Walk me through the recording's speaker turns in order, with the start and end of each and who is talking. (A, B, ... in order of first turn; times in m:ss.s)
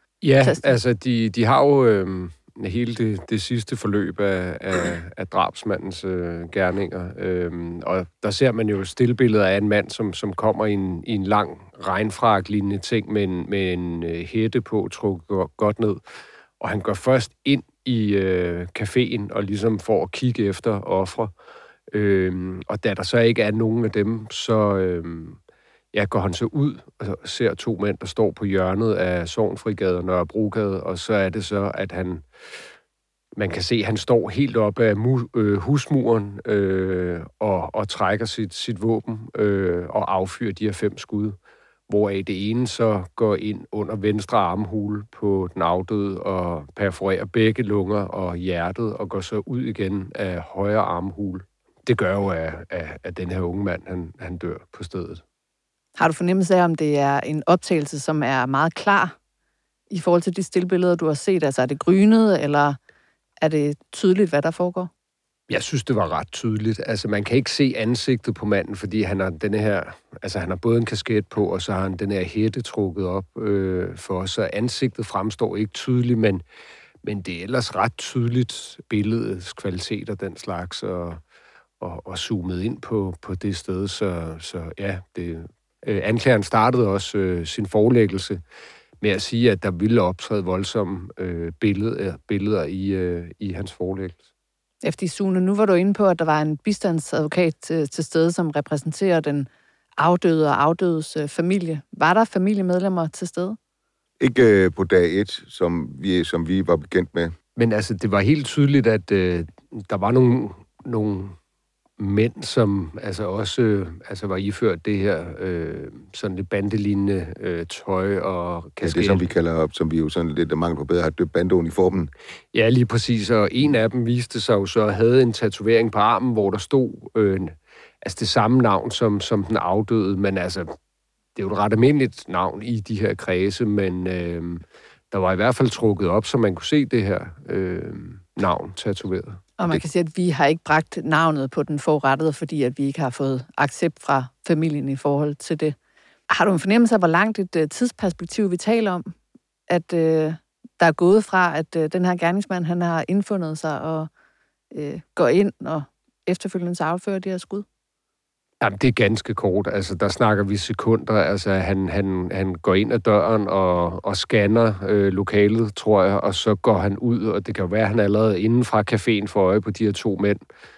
0:00.2-0:16.0 A
0:00.4-0:00.6 B
0:16.6-0:21.3 A
0:21.9-0:25.4 A
0:25.9-0:32.2 A
0:33.4-0:41.4 A
0:41.9-0:55.2 A
0:56.0-0:59.1 B
0:59.9-1:02.8 B
1:03.4-1:04.9 B
1:05.5-1:16.4 A
1:17.0-1:21.2 A
1:21.8-1:28.4 A
1:29.0-1:34.2 A
1:34.8-1:43.6 B
1:44.2-1:47.3 C
1:47.6-1:51.4 A
1:52.0-1:59.2 A
1:58.8-2:02.1 C
2:02.5-2:10.7 A
2:11.4-2:19.4 A
2:19.6-2:25.8 B
2:26.3-2:29.1 B
2:29.7-2:34.1 B
2:34.7-2:37.6 B
2:38.6-2:50.4 A